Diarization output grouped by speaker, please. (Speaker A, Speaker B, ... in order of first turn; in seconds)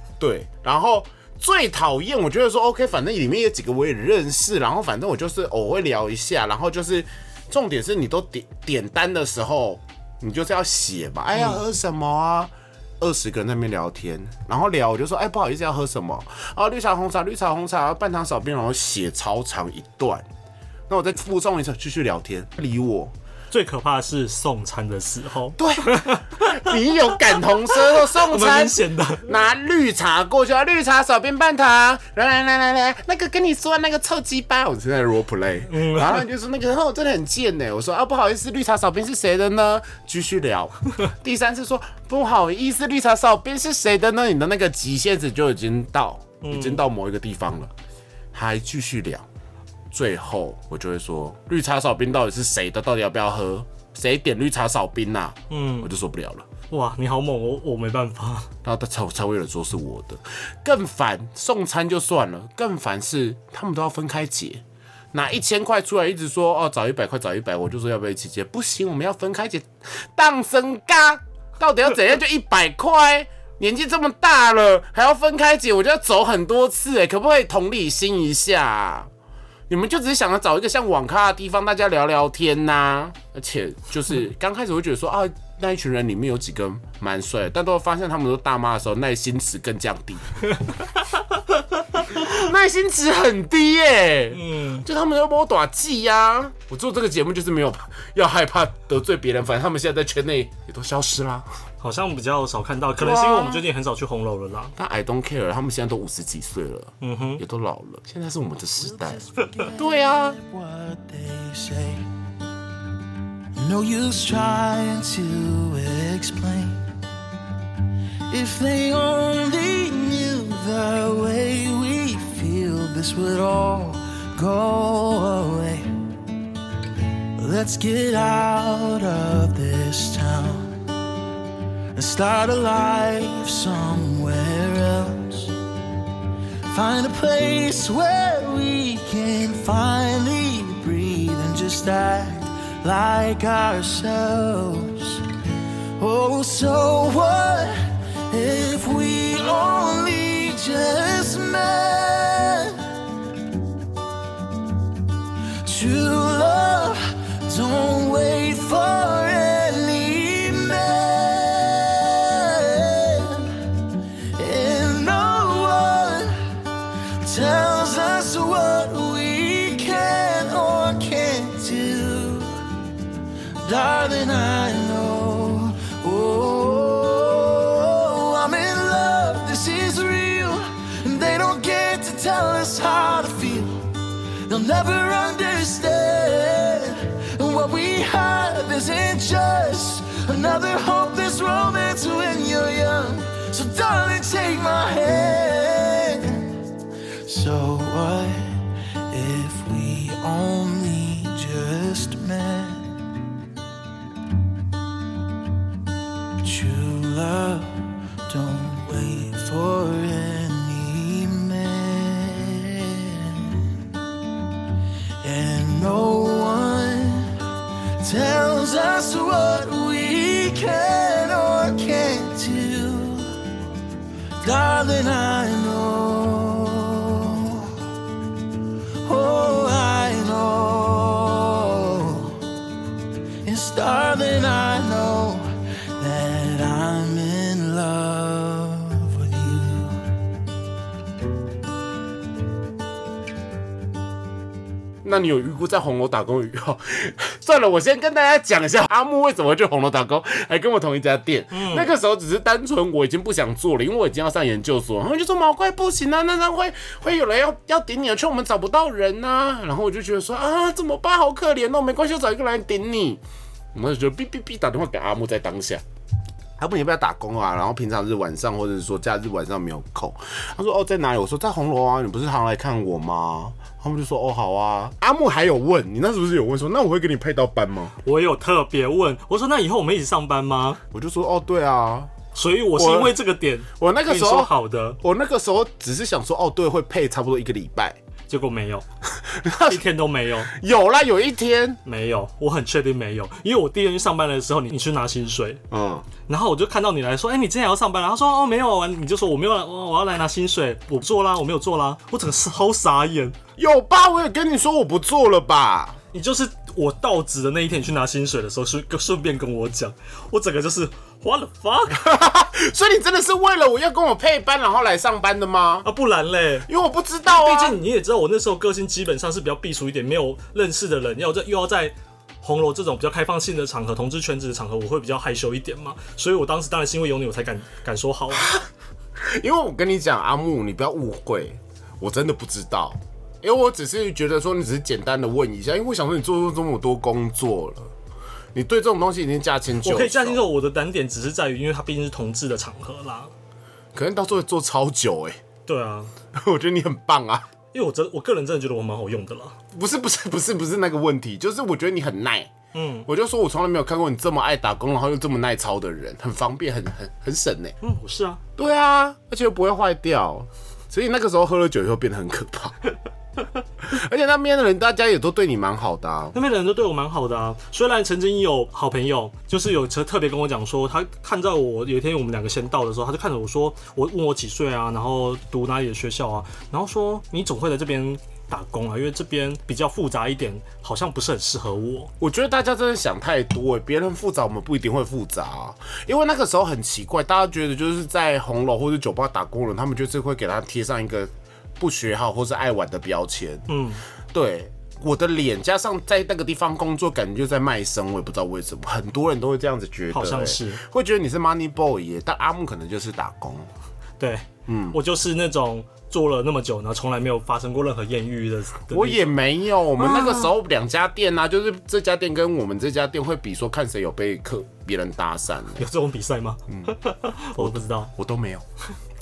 Speaker A: 0.2-20.2, 20.9-23.1, 25.6-47.7, 48.3-49.3, 49.9-56.5, 58.6-79.1, 79.7-90.3, 92.1-101.5, 103.0-103.6, 104.8-110.4, 245.0-263.2, 263.7-265.8, 266.6-277.9, 280.9-282.1, 282.7-283.2, 283.8-288.0, 289.2-289.9, 290.4-291.8, 295.7-296.1, 303.6-306.0, 311.9-315.9, 316.6-317.8, 328.3-328.6, 329.2-337.9, 338.5-340.4, 343.9-345.4, 346.3-347.5, 349.7-352.5, 353.1-357.8, 358.6-362.8, 363.8-366.4, 382.2-393.7, 394.3-403.7, 404.7-405.0, 408.9-415.8, 416.7-416.9, 417.6-418.6
Speaker B: 11.3-11.6, 23.5-29.3, 35.7-36.2, 46.4-46.8, 55.5-55.9, 56.7-58.5, 94.3-94.8, 101.8-104.7, 107.0-107.4, 251.5-251.9, 278.0-280.8, 282.3-285.0, 288.3-288.8, 289.6-290.5, 291.8-295.6, 296.3-303.3, 306.1-312.0, 315.8-316.7, 317.2-328.5, 339.8-343.3, 345.6-346.1, 347.7-349.6, 352.7-353.1, 357.8-358.4, 366.3-382.1, 393.7-394.0, 400.1-400.8, 404.2-409.3, 410.0-410.5, 415.8-418.1
Speaker C: 108.8-112.1, 113.5-116.9, 118.3-125.9, 127.4-130.8, 131.9-135.5, 136.7-145.3, 146.0-152.9, 155.6-163.7, 164.3-166.4, 167.2-172.6, 173.6-183.8, 184.5-196.6, 197.2-202.9, 206.4-213.9, 215.2-217.4, 218.0-223.4, 224.4-227.8, 229.0-232.4, 233.4-240.1